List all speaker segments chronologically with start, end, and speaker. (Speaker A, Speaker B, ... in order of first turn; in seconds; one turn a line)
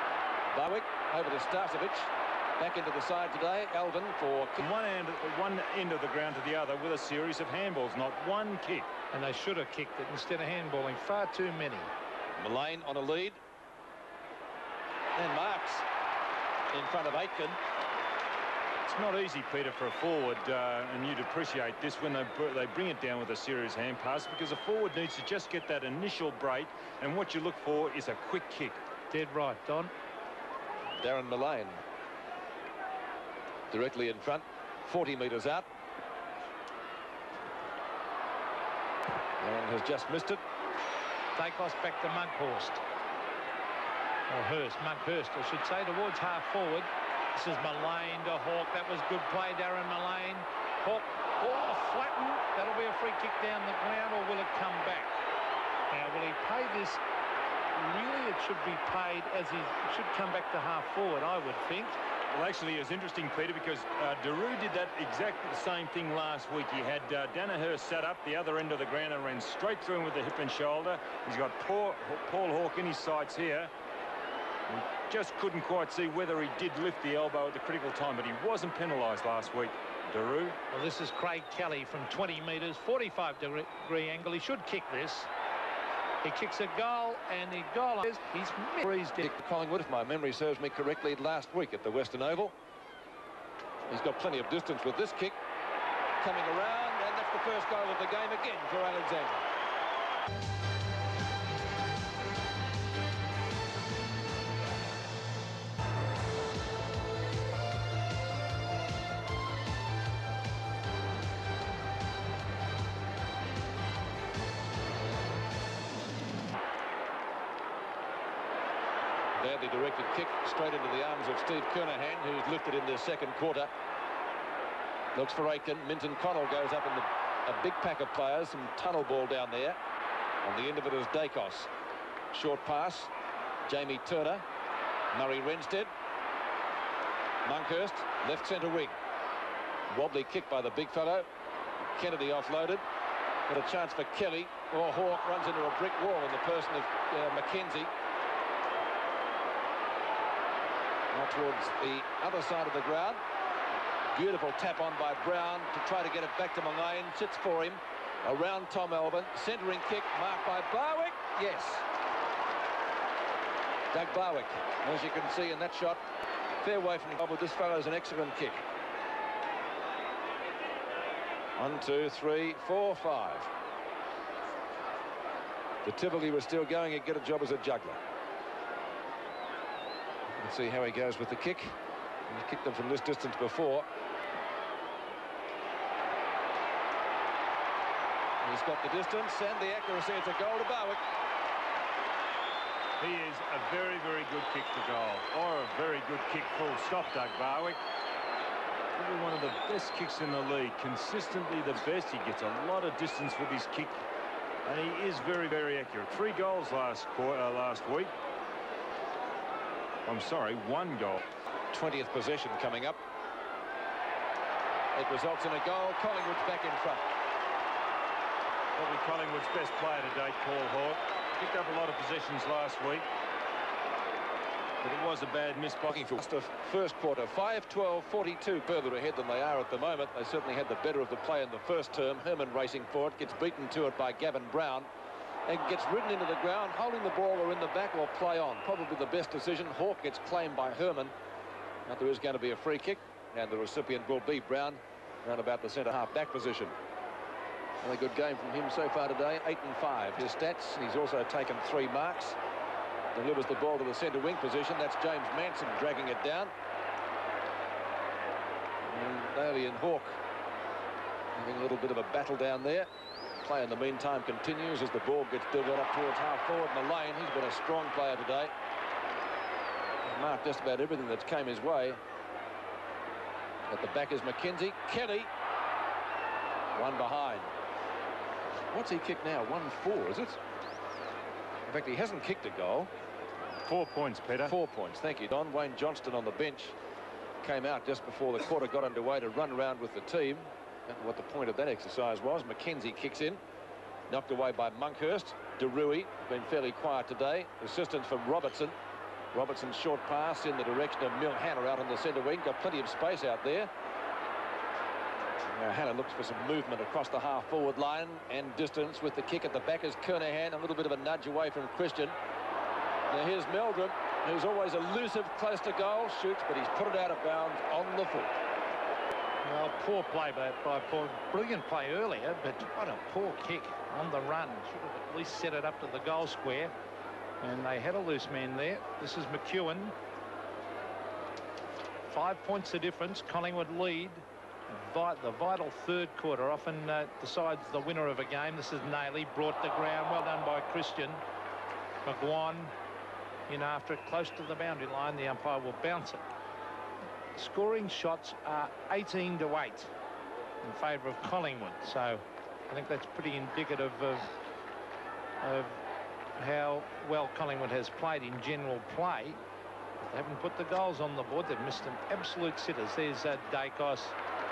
Speaker A: 0.5-4.6
Speaker B: 4.6-8.9
Speaker C: 9.1-11.9
Speaker A: 12.3-13.4
Speaker A: 15.1-15.8
Speaker A: 16.7-17.6
Speaker B: 18.9-28.8
Speaker C: 29.1-29.9
Speaker A: 31.0-31.8
Speaker A: 33.7-35.6
Speaker A: 39.4-40.4
Speaker C: 41.4-42.8
Speaker C: 44.3-55.1
Speaker C: 55.9-57.0
Speaker C: 57.7-61.9
Speaker B: 62.3-73.7
Speaker B: 74.7-80.5
Speaker C: 80.7-85.3
Speaker C: 86.2-89.3
Speaker A: 89.2-92.5
Speaker A: 93.9-95.3
Speaker A: 96.2-99.5
Speaker A: 119.3-123.7
Speaker A: 125.1-129.8
Speaker A: 130.4-131.7
Speaker A: 132.3-133.1
Speaker A: 133.7-134.4
Speaker A: 135.1-135.9
Speaker A: 137.4-138.9
Speaker A: 139.9-141.3
Speaker A: 141.8-142.8
Speaker A: 143.5-147.9
Speaker A: 151.1-153.2
Speaker A: 154.1-161.8
Speaker A: 163.9-166.0
Speaker A: 166.6-168.6
Speaker A: 171.6-173.5
Speaker A: 175.8-178.0
Speaker A: 180.3-181.8
Speaker A: 182.3-183.9
Speaker A: 188.4-191.0
Speaker B: 193.0-197.8
Speaker B: 198.9-204.0
Speaker B: 204.6-208.1
Speaker B: 210.1-211.2
Speaker A: 211.7-213.0
Speaker A: 214.9-217.1
Speaker B: 218.7-223.1
Speaker B: 224.8-226.1
Speaker A: 226.1-234.9
Speaker A: 235.4-241.1
Speaker A: 241.8-246.7
Speaker A: 247.8-252.4
Speaker A: 253.1-256.5
Speaker A: 258.8-260.2
Speaker A: 261.3-262.9
Speaker A: 263.4-268.5
Speaker A: 270.0-272.0
Speaker A: 273.7-275.3
Speaker A: 276.7-277.5
Speaker A: 278.7-280.4
Speaker A: 281.6-282.9
Speaker B: 283.6-284.5
Speaker A: 284.4-286.7
Speaker A: 287.4-293.4
Speaker A: 294.1-298.8
Speaker A: 299.3-303.7
Speaker A: 305.5-312.1
Speaker A: 313.1-318.3
Speaker C: 319.4-326.7
Speaker C: 327.4-329.9
Speaker C: 332.1-341.2
Speaker C: 342.0-342.7
Speaker C: 343.5-346.2
Speaker C: 347.3-349.9
Speaker C: 350.6-354.3
Speaker C: 355.4-355.8
Speaker C: 356.4-359.4
Speaker C: 360.0-364.1